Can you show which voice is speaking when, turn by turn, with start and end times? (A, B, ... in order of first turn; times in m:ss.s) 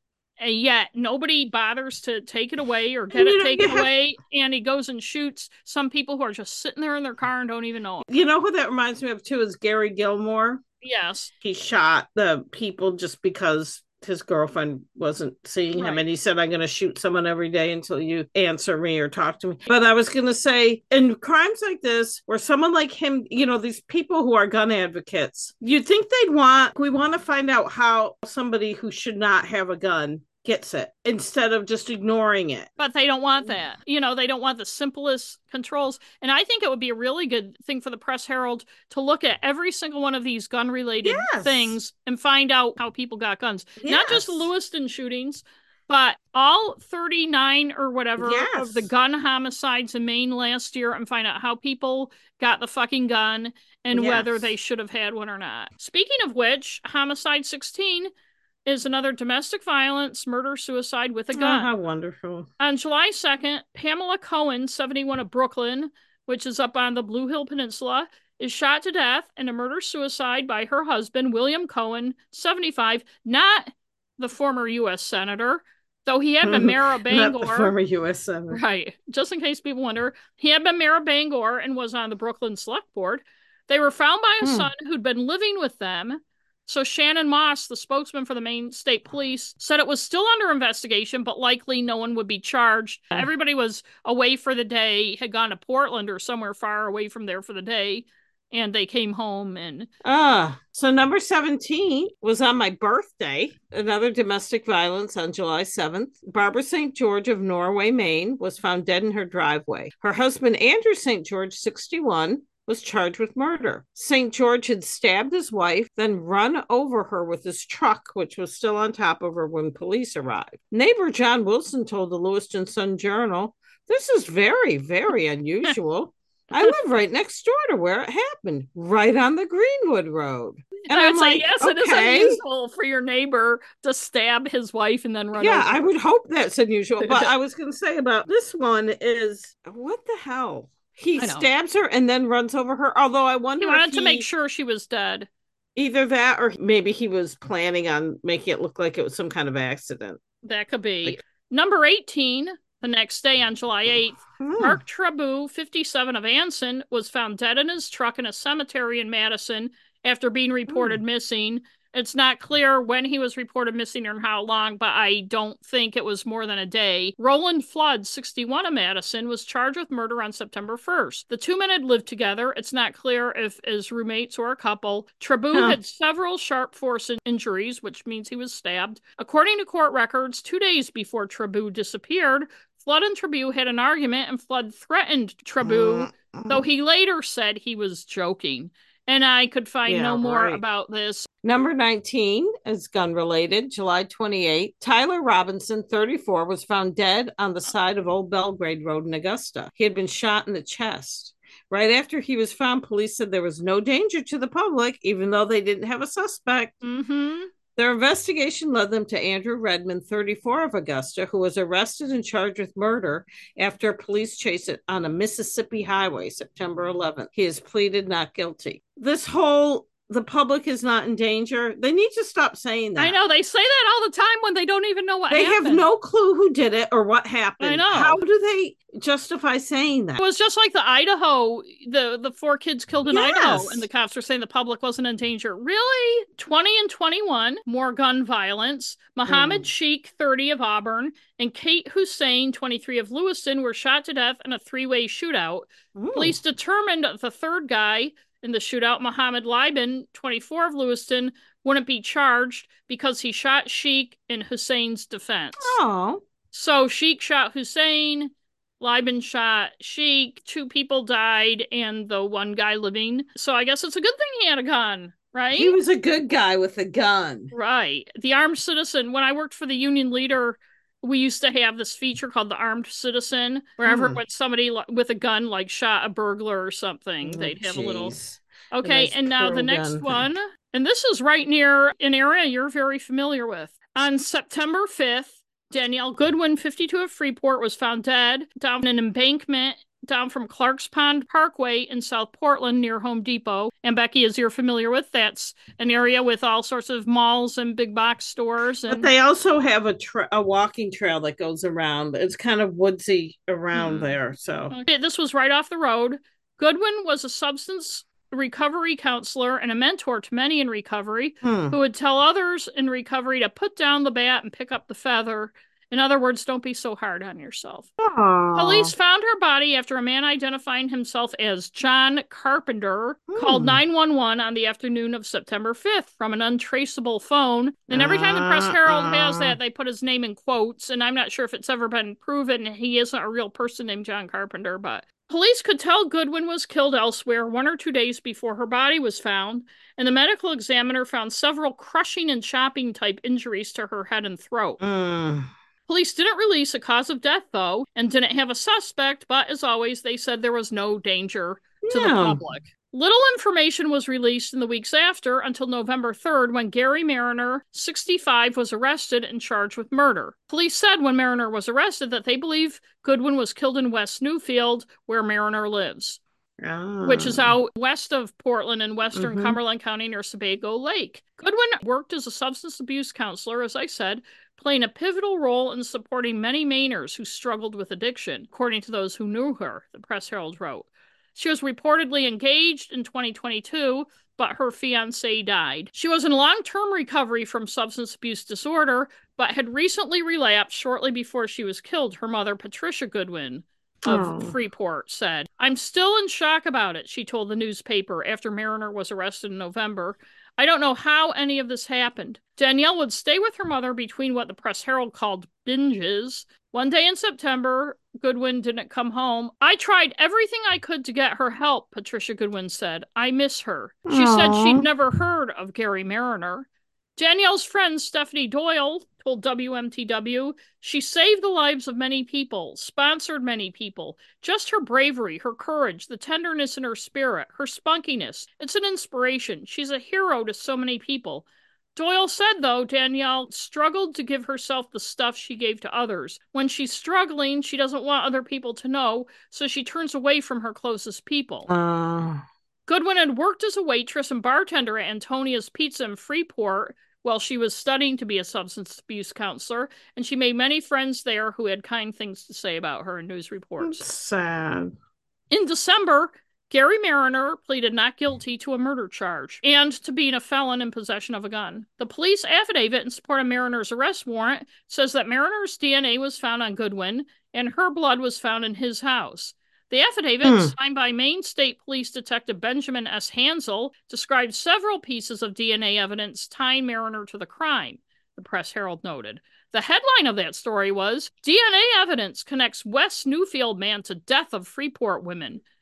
0:00.4-0:08.1 A
0:03.1-0:03.9 B
0:08.1-0:10.6 B
0:10.8-0:11.3 A
0:11.4-0:32.7 B
0:15.7-0:16.1 A
0:32.8-0:58.1 A
0:41.0-0:41.7 B
0:43.8-0:44.5 B
0:48.2-0:48.9 B
0:53.9-0:54.5 B
0:58.7-1:01.7 A
1:01.3-1:02.5 B
1:02.6-1:17.7 A
1:16.4-1:18.6 B
1:18.5-1:39.9 A
1:24.4-1:24.7 B
1:40.0-2:12.4 B
2:10.9-2:15.9 A
2:15.4-2:24.3 B
2:17.0-2:17.3 A
2:21.2-2:21.5 A
2:23.6-2:25.3 A
2:25.8-2:30.2 B
2:30.4-3:11.3 A
2:34.4-2:34.8 B
2:40.7-2:41.0 B
3:05.6-3:06.7 B
3:09.9-3:10.6 B
3:11.4-3:26.8 B
3:26.8-3:27.5 A
3:27.8-3:43.2 B
3:43.0-3:45.8 A
3:45.3-3:50.2 B
3:47.6-3:48.2 A
3:50.2-4:15.8 A
3:53.1-3:53.9 B
3:59.3-3:59.7 B
4:06.0-4:06.4 B
4:15.6-4:16.2 B
4:16.5-4:25.8 A
4:25.5-4:27.5 B
4:27.5-4:38.1 A
4:33.8-4:34.2 B
4:37.2-4:40.2 B
4:38.7-4:59.1 A
4:58.9-5:04.8 B
5:03.7-5:04.1 A
5:04.7-5:17.9 A
5:11.4-5:11.8 B
5:18.0-5:18.9 B
5:18.5-5:44.8 A
5:23.3-5:23.8 B
5:27.9-5:29.6 B
5:44.8-5:45.5 B
5:45.9-6:06.2 A
5:51.8-5:52.4 B
6:06.6-6:07.5 B
6:07.0-7:21.7 A
6:09.2-6:09.6 B
6:34.0-6:34.5 B
6:54.1-6:54.9 B
7:21.7-7:22.4 B
7:22.9-7:34.0 A
7:33.8-7:34.9 B
7:35.5-8:05.6 A
7:50.4-7:50.7 B